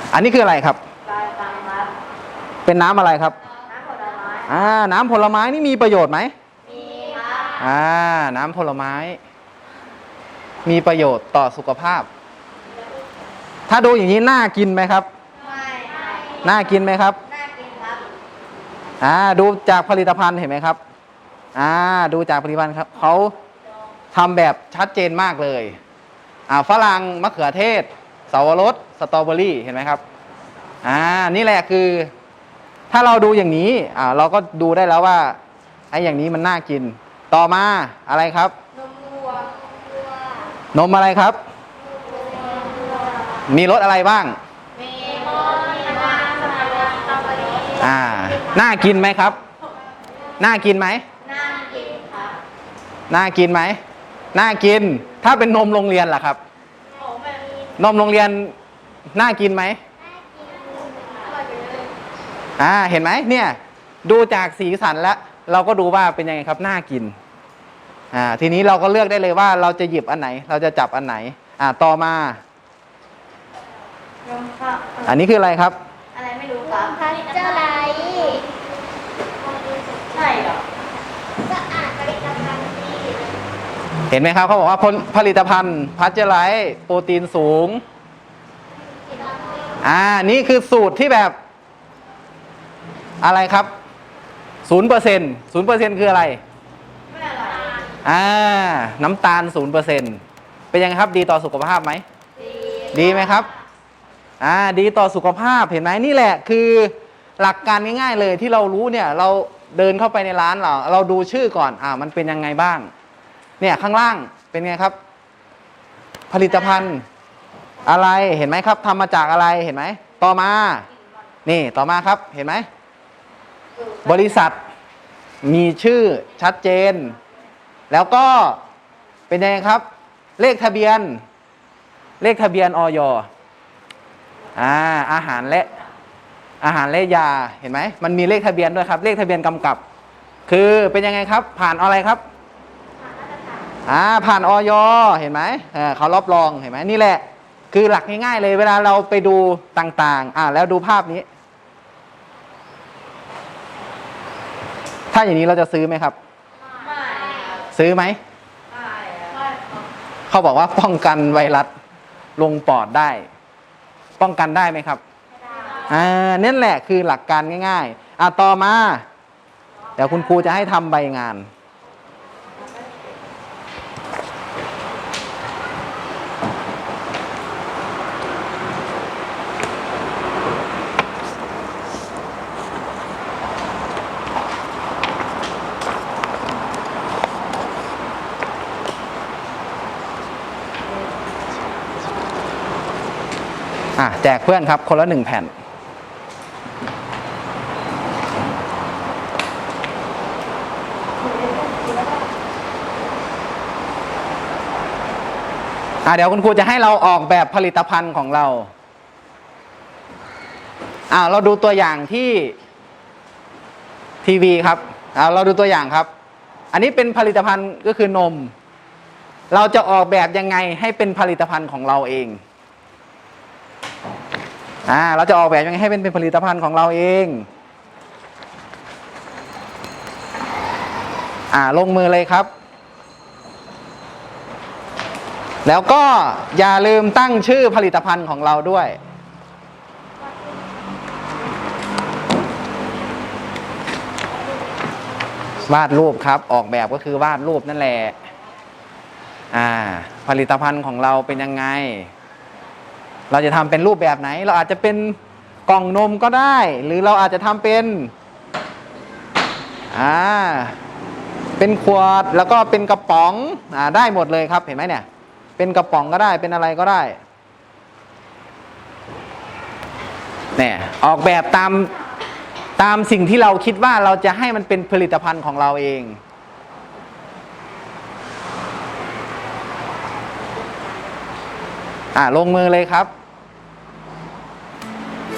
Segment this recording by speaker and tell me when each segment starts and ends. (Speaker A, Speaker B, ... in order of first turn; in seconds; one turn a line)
Speaker A: 0.1-0.8
Speaker B: 1.1-1.9
Speaker A: 2.7-3.4
Speaker B: 3.7-4.5
Speaker A: 4.5-6.3
Speaker B: 6.7-7.6
Speaker A: 7.6-9.2
Speaker A: 10.7-12.1
Speaker A: 13.7-15.1
Speaker B: 15.4-16.4
Speaker A: 16.4-17.2
Speaker B: 17.3-18.1
Speaker A: 19.0-20.8
Speaker A: 21.6-23.3
Speaker A: 24.1-25.8
Speaker A: 26.5-30.0
Speaker A: 30.8-32.1
Speaker A: 32.9-35.4
Speaker A: 35.9-38.5
Speaker B: 38.9-39.5
Speaker C: 40.1-40.4
Speaker A: 40.7-41.4
Speaker B: 42.3-42.8
Speaker A: 43.5-44.4
Speaker B: 44.8-47.8
Speaker A: 47.8-49.4
Speaker A: 50.4-51.0
Speaker B: 51.2-52.4
Speaker A: 53.1-53.8
Speaker A: 54.3-56.4
Speaker B: 57.0-57.4
Speaker C: 57.3-57.7
Speaker A: 57.8-58.5
Speaker A: 59.1-59.8
Speaker C: 60.0-61.5
Speaker B: 61.0-61.8
Speaker A: 62.6-67.2
Speaker A: 68.1-72.4
Speaker B: 74.2-75.1
Speaker A: 75.0-75.8
Speaker B: 76.1-78.3
Speaker C: 76.7-78.4
Speaker C: 79.4-80.2
Speaker B: 80.1-80.6
Speaker C: 81.4-83.4
Speaker A: 84.1-87.8
Speaker C: 88.8-89.8
Speaker A: 89.8-91.3
Speaker A: 93.2-93.7
Speaker A: 94.7-96.4
Speaker B: 97.1-97.9
Speaker A: 98.0-100.2
Speaker A: 100.7-102.0
Speaker B: 102.4-103.5
Speaker A: 102.9-103.5
Speaker A: 104.4-112.9
Speaker A: 113.6-115.0
Speaker A: 116.3-117.0
Speaker A: 117.8-120.9
Speaker A: 121.5-122.7
Speaker B: 123.8-124.3
Speaker A: 124.0-124.6
Speaker A: 125.4-127.2
Speaker A: 127.9-128.6
Speaker A: 129.3-129.8
Speaker A: 130.4-131.2
Speaker A: 132.2-133.3
Speaker A: 134.6-135.7
Speaker A: 136.6-139.8
Speaker A: 140.5-142.2
Speaker A: 143.9-151.3
Speaker A: 155.1-156.2
Speaker C: 156.8-157.6
Speaker B: 156.8-157.7
Speaker A: 157.7-158.2
Speaker B: 158.7-159.5
Speaker A: 160.3-161.7
Speaker A: 162.4-163.3
Speaker A: 164.2-165.0
Speaker C: 165.5-165.9
Speaker B: 165.6-165.9
Speaker A: 165.9-169.1
Speaker A: 170.0-171.5
Speaker A: 194.0-195.5
Speaker A: 206.1-208.7
Speaker A: 211.1-212.6
Speaker A: 214.2-216.1
Speaker A: 216.7-218.5
Speaker A: 219.5-222.4
Speaker A: 224.9-227.5
Speaker A: 231.5-232.5
Speaker A: 235.7-239.0
Speaker A: 245.7-248.2
Speaker A: 249.5-252.1
Speaker A: 253.3-258.1
Speaker A: 259.9-260.8
Speaker A: 261.6-265.1
Speaker A: 265.6-267.2
Speaker A: 270.6-271.9
Speaker A: 272.8-276.2
Speaker A: 282.1-283.1